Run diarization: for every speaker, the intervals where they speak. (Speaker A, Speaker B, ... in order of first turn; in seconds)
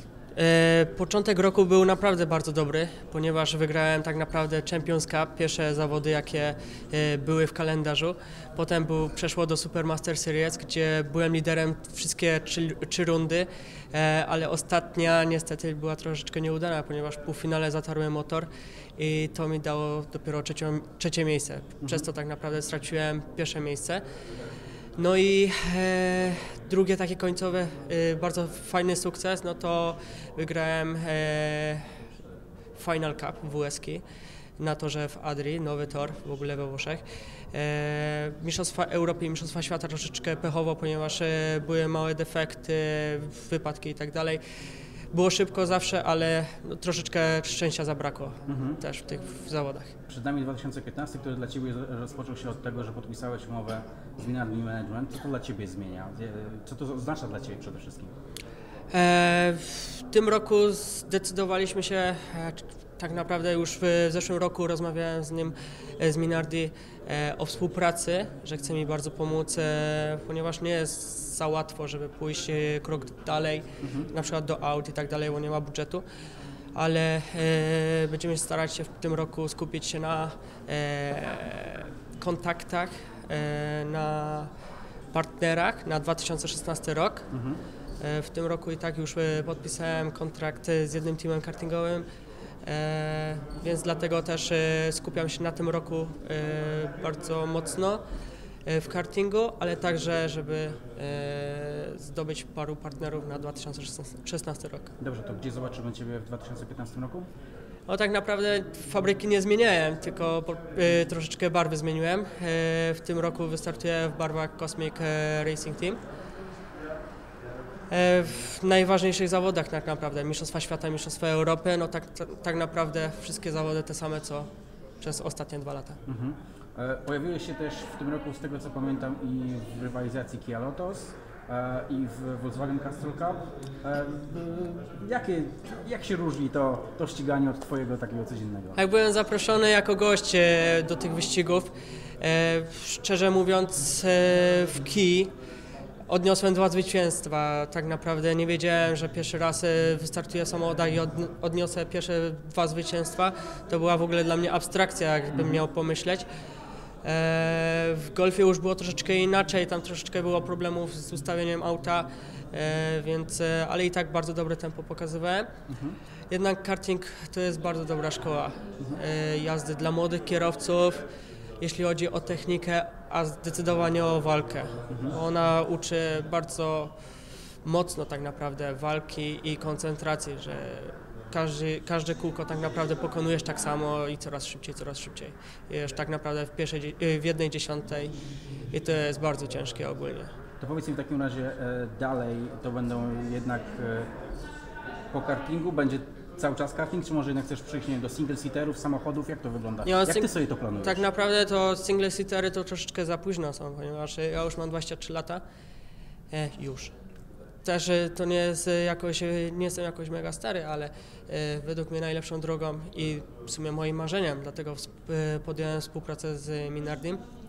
Speaker A: 0.3-24.0, 25.0-31.9, 32.8-34.0, 34.6-44.4, 45.1-49.9, 58.9-76.0, 76.7-84.5, 85.1-87.3, 88.0-92.0, 92.6-98.0, 98.7-104.9, 107.9-116.0, 117.9-124.5, 125.0-126.0, 138.8-145.3, 146.1-156.2, 157.0-165.5, 166.3-171.0, 171.6-176.9, 177.6-188.1, 188.7-190.3, 199.8-205.4, 206.3-206.9, 207.6-217.2
Speaker B: 21.8-22.1, 48.5-48.8, 50.1-58.1, 73.8-74.1, 87.3-87.6, 105.0-107.3, 126.0-138.8, 155.3-155.6, 165.7-166.0, 174.9-175.1, 190.6-194.1, 195.1-201.0